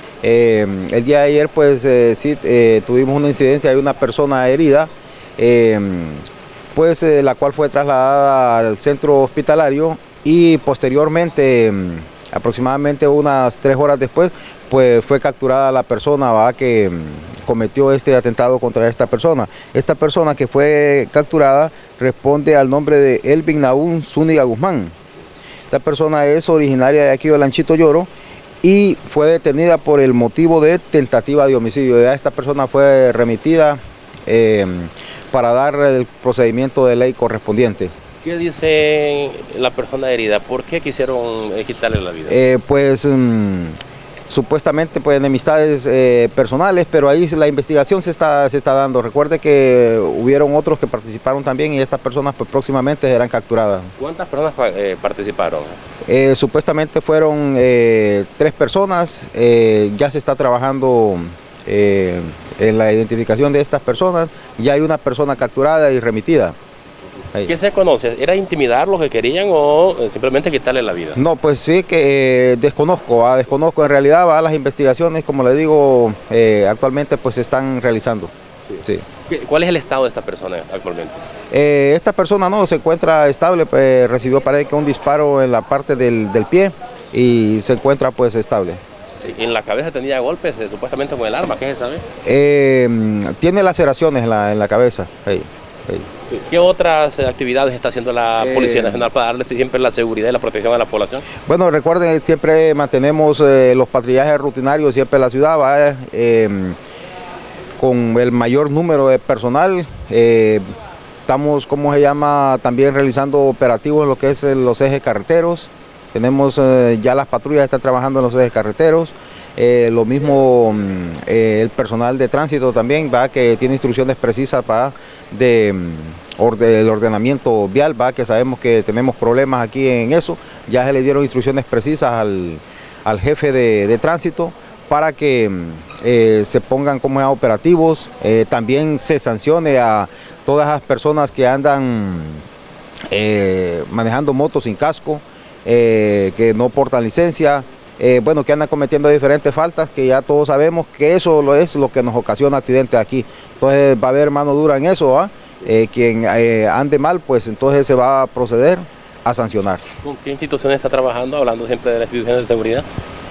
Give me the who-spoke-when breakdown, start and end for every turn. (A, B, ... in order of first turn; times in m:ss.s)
0:00.2-0:06.2 A
0:06.7-0:24.9 A
0:25.7-0:28.1 A
0:28.6-0:37.9 A
0:38.2-0:42.4 B
0:42.3-0:43.8 A
0:44.3-0:53.9 A
0:54.0-0:55.8 B
0:56.0-1:06.5 A
1:07.4-1:11.2 B
1:11.2-1:18.3 A
1:18.7-1:21.2 B
1:21.5-1:28.8 A
1:29.2-1:32.0 B
1:32.2-1:36.1 A
1:36.3-1:41.2 B
1:38.4-1:39.1 A
1:41.4-1:46.8 A
1:47.8-1:50.6 A
1:51.2-2:22.4 A
2:23.1-2:39.8 A
2:40.0-2:42.8 B